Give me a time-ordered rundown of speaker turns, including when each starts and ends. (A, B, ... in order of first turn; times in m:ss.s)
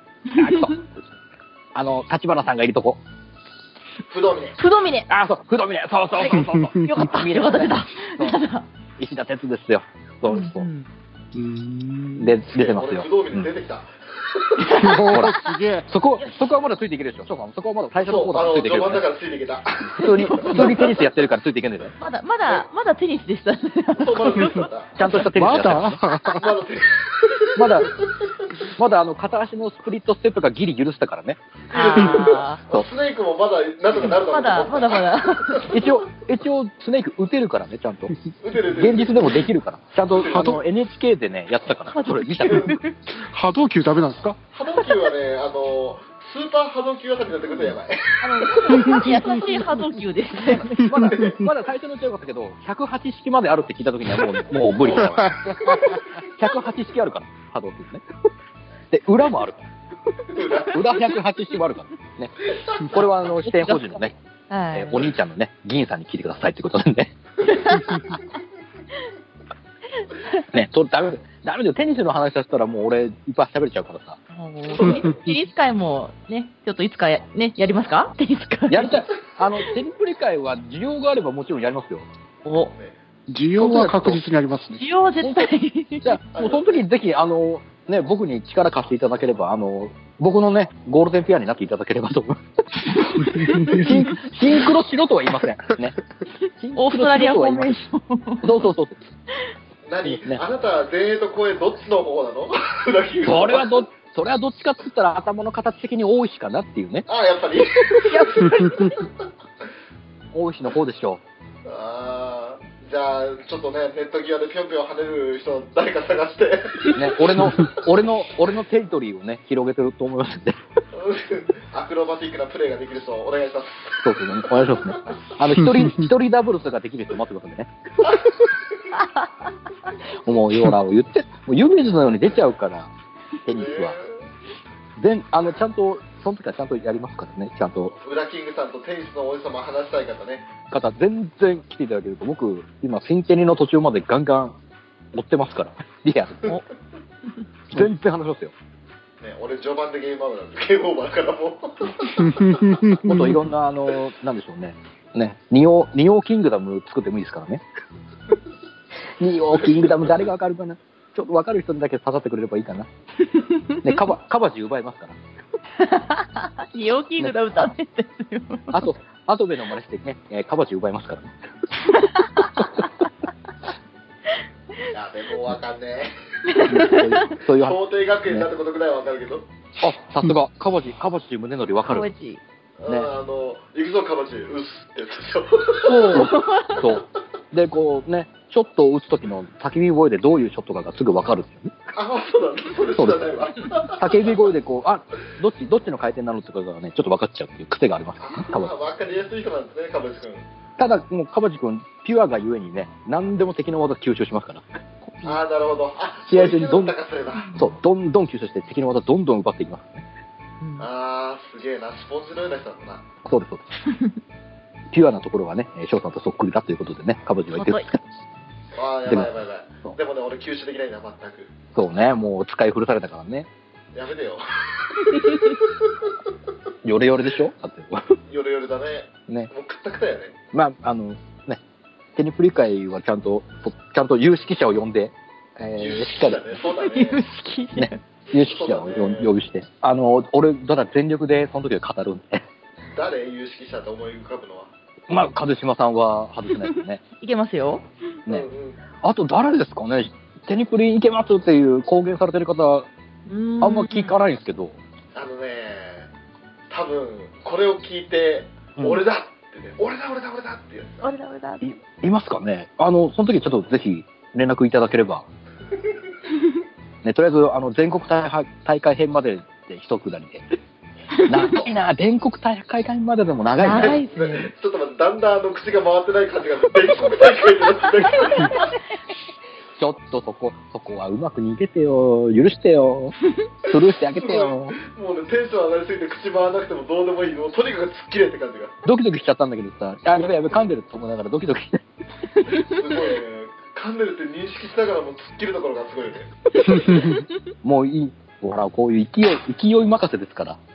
0:00.3-0:00.7 A
0:00.3-0:00.8 B
0:01.7-0:03.0 B
0:04.0-0:04.6 C
0:04.6-0:05.1 A
0:05.1-0:08.4 B
0:06.2-0:08.6 A
0:06.3-0:07.0 D
0:09.0-0:10.7 B
0:10.3-0:10.9 A
0:11.3-0:12.3 D
0:12.2-0:13.5 B
0:12.5-0:14.8 C
0:14.6-0:15.2 A
0:14.7-0:15.9 D
0:15.1-0:19.0 B
0:18.0-0:20.9 C
0:19.9-0:21.9 B
0:20.3-0:20.8 A
0:22.0-0:24.7 A
0:24.0-0:24.9 C
0:25.0-0:26.0 B
0:25.2-0:26.5 D
0:26.3-0:28.1 C
0:27.5-0:27.9 B
0:28.8-0:31.4 B
0:31.7-0:35.9 C
0:31.7-0:32.6 A
0:34.0-0:35.7 A
0:35.7-0:38.2 B
0:38.4-0:39.5 C
0:38.7-0:42.7 B
0:40.1-0:40.6 C
0:40.3-0:40.6 D
0:41.9-0:43.0 A
0:42.4-0:42.8 C
0:43.1-0:44.4 D
0:44.5-0:49.0 C
0:48.2-0:50.8 A
0:48.8-0:49.8 D
0:50.7-0:55.4 B
0:50.8-0:51.5 D
0:51.1-0:51.4 C
0:54.8-0:56.1 C
0:55.2-0:56.0 D
0:56.3-0:58.0 B
0:58.9-0:59.6 B
1:00.3-1:01.0 C
1:00.7-1:04.2 B
1:02.5-1:03.0 C
1:03.4-1:04.0 A
1:04.5-1:05.1 A
1:04.7-1:07.2 B
1:07.4-1:08.2 A
1:07.5-1:08.0 C
1:10.5-1:14.2 B
1:14.3-1:19.0 A
1:14.8-1:15.0 C
1:18.7-1:22.0 B
1:22.4-1:22.7 A
1:23.3-1:24.8 D
1:23.6-1:24.2 B
1:24.8-1:26.2 A
1:25.2-1:25.5 B
1:26.0-1:36.0 B
1:26.3-1:26.8 C
1:33.5-1:33.9 D
1:33.5-1:34.0 A
1:36.6-1:37.8 B
1:36.8-1:38.5 A
1:38.4-1:39.0 B
1:39.8-1:43.8 C
1:40.0-1:40.4 B
1:43.2-1:47.1 B
1:47.1-1:49.1 C
1:48.0-1:48.9 A
1:50.3-1:51.2 B
1:51.6-1:57.7 C
1:56.9-2:00.6 B
2:00.9-2:05.2 C
2:04.0-2:07.7 B
2:05.6-2:06.1 D
2:10.2-2:12.9 B
2:13.4-2:14.0 B
2:13.5-2:14.1 C
2:15.0-2:18.0 B
2:18.0-2:20.5 C
2:20.7-2:24.6 B
2:25.1-2:26.5 B
2:27.7-2:28.5 B
2:29.2-2:32.7 C
2:32.2-2:33.4 D
2:33.0-2:37.6 B
2:39.2-2:42.9 B
2:39.5-2:40.3 C
2:43.2-2:44.0 A
2:43.8-2:45.2 B
2:45.8-2:48.8 A
2:47.2-2:47.7 B
2:48.7-2:51.3 B
2:51.9-2:52.7 A
2:54.9-2:56.9 C
2:56.5-2:57.3 A
2:56.6-2:58.5 B
2:57.6-2:59.5 C
2:59.8-3:02.0 B
3:01.9-3:02.4 A
3:02.8-3:06.3 C
3:05.8-3:11.7 B
3:06.1-3:06.8 A
3:11.9-3:14.4 C
3:12.9-3:13.3 B
3:13.8-3:18.7 B
3:18.2-3:20.4 C
3:20.8-3:24.6 B
3:25.1-3:25.4 A
3:25.2-3:27.6 C
3:26.3-3:26.9 B
3:27.4-3:27.6 A
3:27.5-3:30.0 B
3:30.6-3:30.9 A
3:30.8-3:33.0 C
3:33.2-3:33.7 B
3:33.9-3:34.1 A
3:34.9-3:38.0 B
3:37.5-3:37.9 A
3:38.7-3:41.5 C
3:41.7-3:43.5 B
3:43.9-3:45.7 C
3:46.8-3:48.2 B
3:48.3-3:50.3 C
3:50.5-3:51.6 B
3:52.2-3:56.5 B
3:55.8-3:57.2 C
3:56.7-3:58.0 A
3:57.8-4:02.4 B
3:58.4-3:59.3 C
4:02.9-4:04.7 C
4:05.1-4:07.0 B
4:07.2-4:07.9 A
4:08.3-4:08.8 C
4:09.0-4:12.9 B
4:13.3-4:14.2 A
4:13.6-4:14.8 B
4:15.1-4:16.1 C
4:16.7-4:21.0 C
4:18.8-4:19.0 B
4:21.0-4:21.6 A
4:21.6-4:25.2 B
4:27.0-4:30.5 B
4:31.2-4:34.0 B
4:33.6-4:34.5 A
4:33.7-4:38.8 C
4:39.8-4:44.8 B
4:44.1-4:48.8 C
4:48.8-4:51.8 B
4:52.5-4:56.8 C
4:56.9-4:57.2 A
4:57.6-5:00.6 B